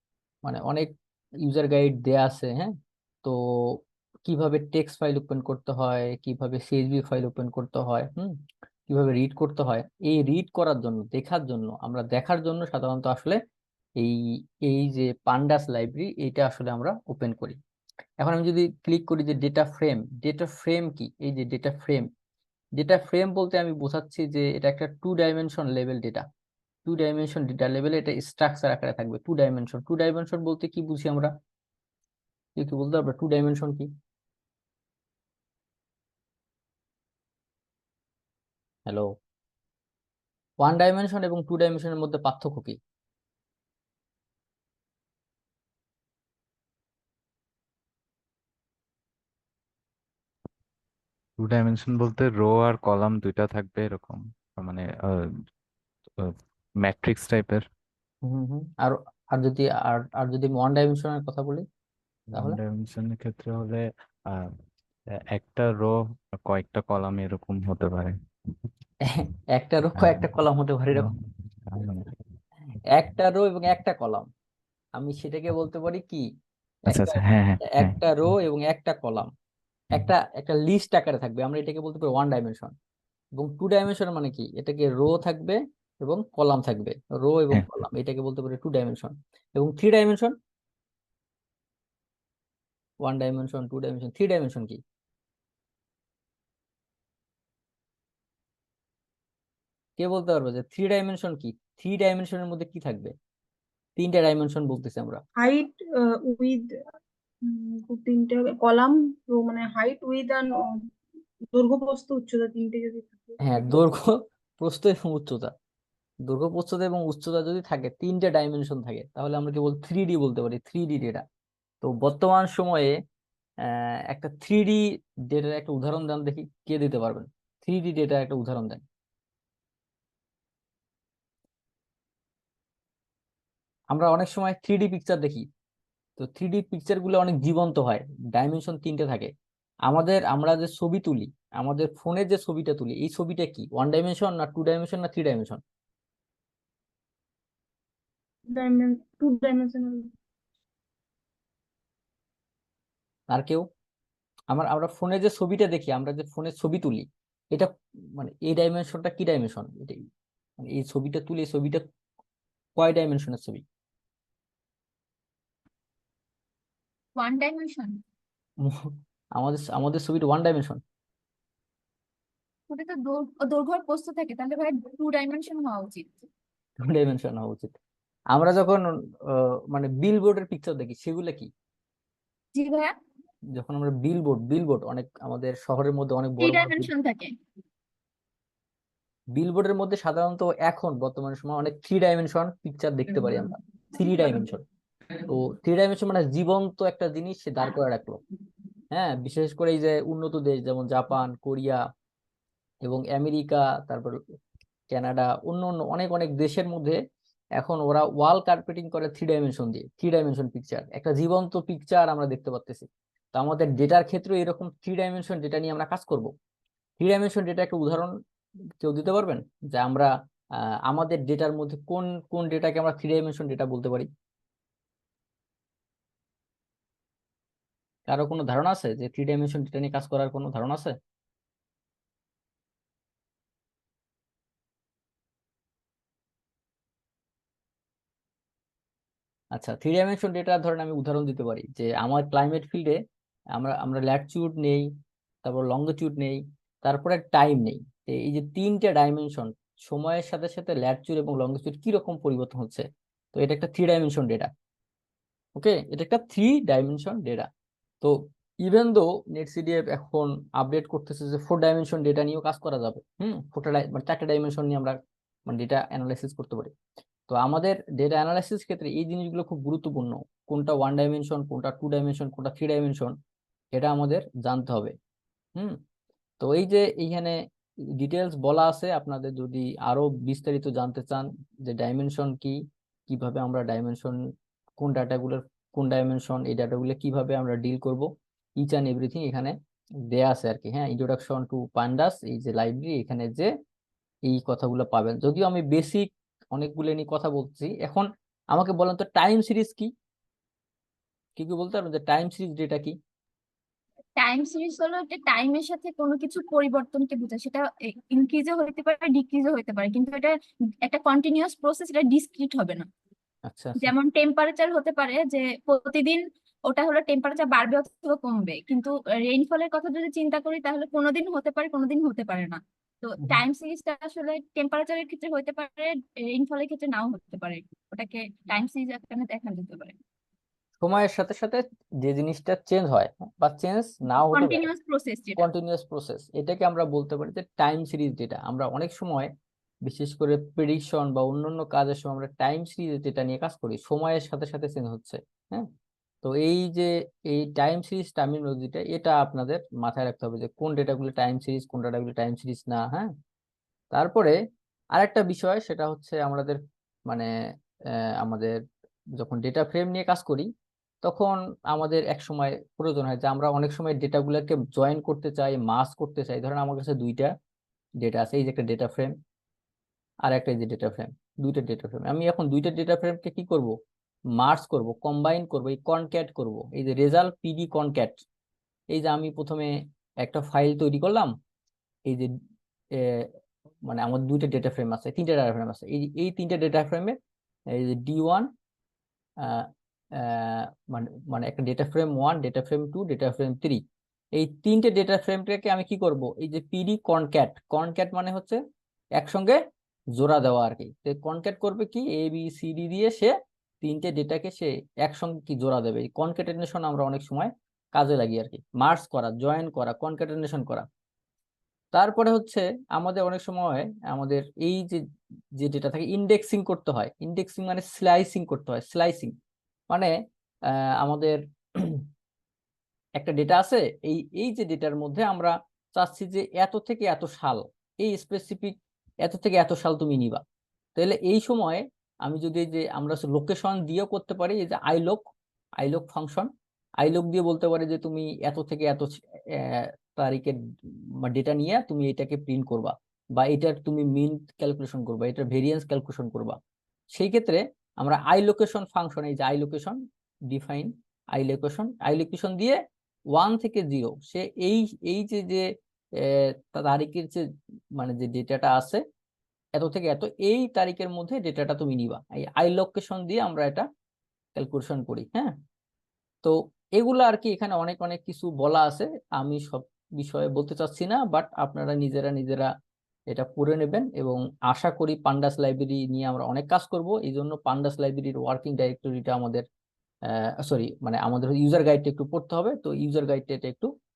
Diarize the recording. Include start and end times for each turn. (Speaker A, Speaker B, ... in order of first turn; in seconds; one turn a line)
Speaker A: 0.5-13.4
Speaker A: 14.0-17.6
Speaker A: 18.2-22.1
Speaker A: 22.8-26.3
Speaker A: 26.9-31.3
Speaker A: 32.5-33.9
Speaker A: 38.9-39.1
Speaker A: 40.6-42.8
Speaker B: 51.4-55.3
Speaker B: 56.2-57.6
Speaker A: 58.2-61.6
Speaker B: 62.3-64.6
Speaker B: 65.1-68.2
Speaker A: 69.0-71.1
Speaker B: 70.0-70.3
Speaker B: 70.9-72.2
Speaker A: 72.9-74.3
Speaker A: 75.0-76.3
Speaker A: 76.9-79.3
Speaker B: 76.9-78.0
Speaker A: 79.9-82.7
Speaker A: 83.4-90.3
Speaker A: 93.0-94.8
Speaker A: 100.0-103.1
Speaker A: 104.0-105.2
Speaker C: 105.4-106.7
Speaker C: 107.4-110.9
Speaker C: 111.5-113.8
Speaker A: 113.4-115.5
Speaker A: 116.2-121.2
Speaker A: 121.8-123.0
Speaker A: 123.6-128.8
Speaker A: 133.9-135.5
Speaker A: 136.2-139.3
Speaker A: 139.8-145.6
Speaker C: 148.5-150.1
Speaker A: 153.3-153.7
Speaker A: 154.5-160.1
Speaker A: 160.6-161.8
Speaker A: 162.8-163.6
Speaker D: 167.2-168.0
Speaker A: 168.6-170.8
Speaker D: 172.7-176.3
Speaker A: 176.8-177.7
Speaker A: 178.3-181.5
Speaker D: 182.5-182.9
Speaker A: 183.5-186.9
Speaker D: 186.4-187.3
Speaker A: 189.3-194.6
Speaker A: 195.3-198.2
Speaker A: 198.9-201.8
Speaker A: 202.8-204.2
Speaker A: 204.9-207.0
Speaker A: 207.6-216.3
Speaker A: 217.0-218.1
Speaker A: 218.8-224.1
Speaker A: 228.1-230.9
Speaker A: 239.5-243.0
Speaker A: 243.5-244.9
Speaker A: 245.4-254.5
Speaker A: 255.6-257.5
Speaker A: 258.0-266.7
Speaker A: 267.3-273.1
Speaker A: 273.7-274.9
Speaker A: 276.4-277.4
Speaker A: 278.0-284.2
Speaker A: 284.8-289.6
Speaker A: 290.1-293.5
Speaker A: 294.2-299.9
Speaker A: 301.4-303.0
Speaker D: 304.2-312.9
Speaker A: 313.5-313.9
Speaker D: 313.8-330.0
Speaker A: 330.8-334.7
Speaker D: 334.3-335.4
Speaker A: 335.4-339.3
Speaker A: 339.8-345.7
Speaker A: 346.2-353.1
Speaker A: 353.9-354.4
Speaker A: 354.9-357.3
Speaker A: 357.9-358.6
Speaker A: 359.2-360.5
Speaker A: 361.0-367.3
Speaker A: 368.0-369.1
Speaker A: 370.2-373.8
Speaker A: 374.4-378.2
Speaker A: 378.9-381.3
Speaker A: 382.9-383.3
Speaker A: 383.9-387.2
Speaker A: 387.7-388.5
Speaker A: 389.4-393.8
Speaker A: 394.4-398.6
Speaker A: 399.1-399.6
Speaker A: 400.1-410.9
Speaker A: 411.9-415.0
Speaker A: 415.6-419.4
Speaker A: 420.7-422.1
Speaker A: 423.2-430.4
Speaker A: 430.9-435.3
Speaker A: 435.8-446.6
Speaker A: 447.1-452.8
Speaker A: 453.3-457.4
Speaker A: 457.9-459.0
Speaker A: 459.8-463.9
Speaker A: 464.6-465.6
Speaker A: 466.4-472.7
Speaker A: 473.3-479.6
Speaker A: 480.3-483.9